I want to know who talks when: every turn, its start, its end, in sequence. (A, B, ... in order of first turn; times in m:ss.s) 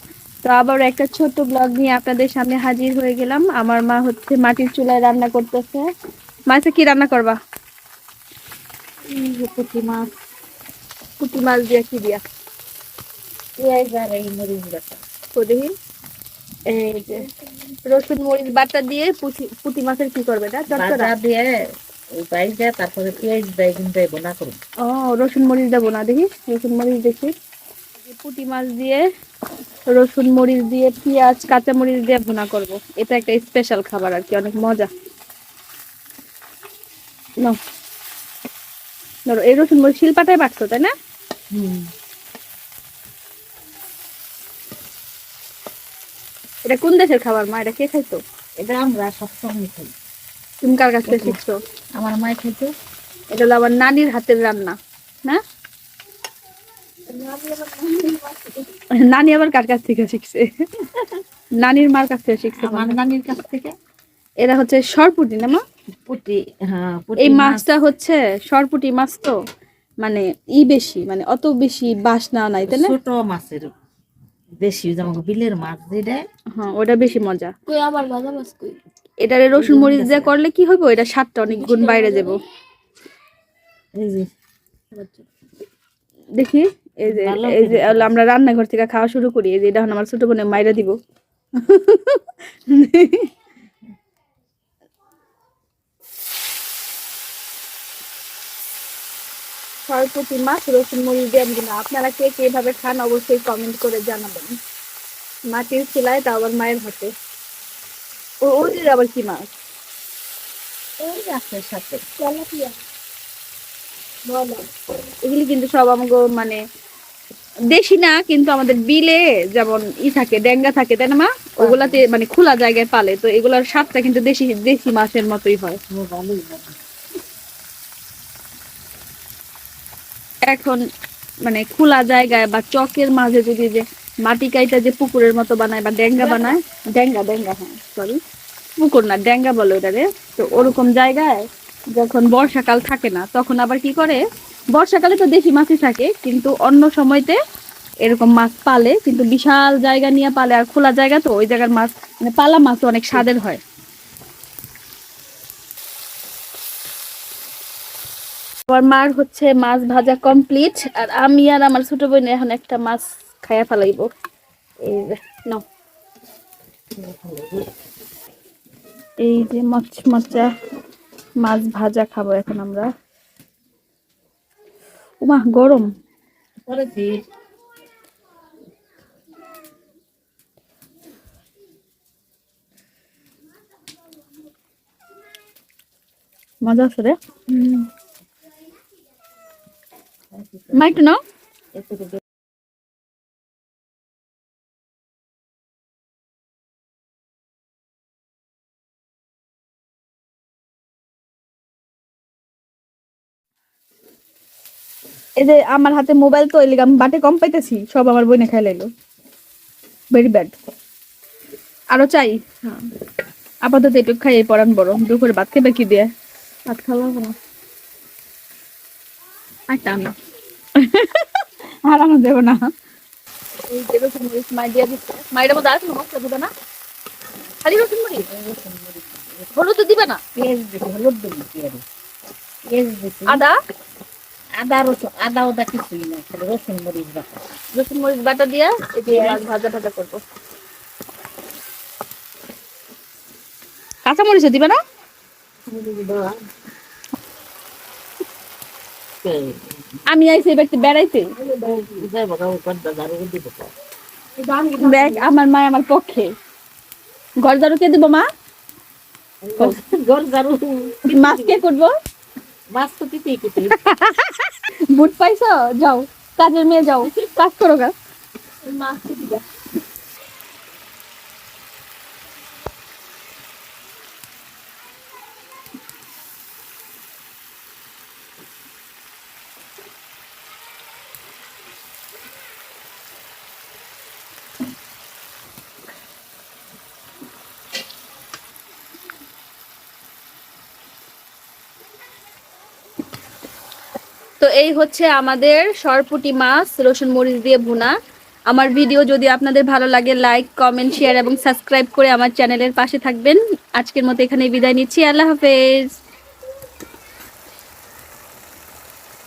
0:00.4-0:05.9 A
0:06.5-0:07.4 A
0:09.1-0:10.1 B
0:11.2-0:12.2 A
0:13.6-0:15.0 B
0:15.4-0:15.7 A
0:16.7-0:17.2 B
0:17.9-0:21.1 A
0:20.7-0:21.5 B
0:22.2-0:24.6 B
0:24.8-0:27.3 A
0:28.0-0:29.0 A
0:29.9-0:34.9 A
0:39.3-0:40.9 A
0:41.5-0:41.9 B
0:46.7-0:48.2 A
0:48.6-0:49.9 B
0:50.6-0:51.6 A
0:51.1-0:51.4 B
0:52.0-0:52.7 B
0:53.3-0:55.4 A
0:57.2-0:58.5 C
0:59.0-1:00.5 A
1:01.6-1:03.0 A
1:02.6-1:03.7 B
1:04.4-1:05.6 A
1:06.1-1:07.7 B
1:07.2-1:09.4 A
1:10.0-1:12.9 A
1:12.6-1:13.7 B
1:14.6-1:16.2 B
1:16.6-1:17.5 A
1:17.7-1:18.7 B
1:19.2-1:22.4 A
1:19.5-1:20.3 B
1:21.5-1:22.3 B
1:24.0-1:24.3 B
1:26.4-1:31.0 A
1:27.0-1:28.1 B
1:31.6-1:33.3 A
1:39.9-1:44.5 A
1:45.5-1:47.1 A
1:48.4-1:49.4 A
1:51.0-1:52.0 B
1:52.2-1:52.7 A
1:54.3-1:56.6 A
1:57.7-2:05.8 A
2:01.6-2:02.0 B
2:05.9-2:06.7 B
2:10.5-2:10.8 A
2:11.5-2:18.2 A
2:16.2-2:16.6 B
2:18.8-2:24.2 A
2:24.7-2:27.4 A
2:28.0-2:33.6 A
2:38.7-2:44.1 A
2:44.8-2:45.6 A
2:47.0-2:47.7 B
2:49.2-2:50.5 A
2:51.4-2:52.9 A
2:55.2-2:55.9 A
2:56.7-2:57.2 B
3:06.6-3:07.9 A
3:10.3-3:11.0 B
3:10.7-3:11.2 A
3:11.8-3:12.2 B
3:25.4-3:28.9 A
3:30.1-3:30.5 A
3:31.9-3:32.9 A
3:33.6-3:36.1 A
3:36.7-3:37.4 A
3:39.7-3:40.1 A
3:40.8-3:42.6 A
3:43.7-3:46.5 A
3:47.6-3:48.3 A
3:48.2-3:49.4 B
3:49.5-3:50.2 A
3:50.4-3:51.8 B
3:52.7-3:53.4 B
3:53.3-3:53.6 A
3:54.6-3:57.4 B
3:57.8-4:00.2 A
3:59.1-3:59.4 B
4:04.1-4:04.8 A
4:05.7-4:06.4 B
4:09.2-4:09.6 B
4:10.1-4:11.3 A
4:11.6-4:13.7 B
4:14.4-4:15.0 C
4:14.8-4:16.3 A
4:17.4-4:18.2 A
4:19.4-4:21.6 B
4:21.1-4:21.9 A
4:22.7-4:23.8 B
4:23.7-4:27.9 A
4:28.7-4:29.4 C
4:54.4-4:57.9 A
4:58.5-5:05.9 A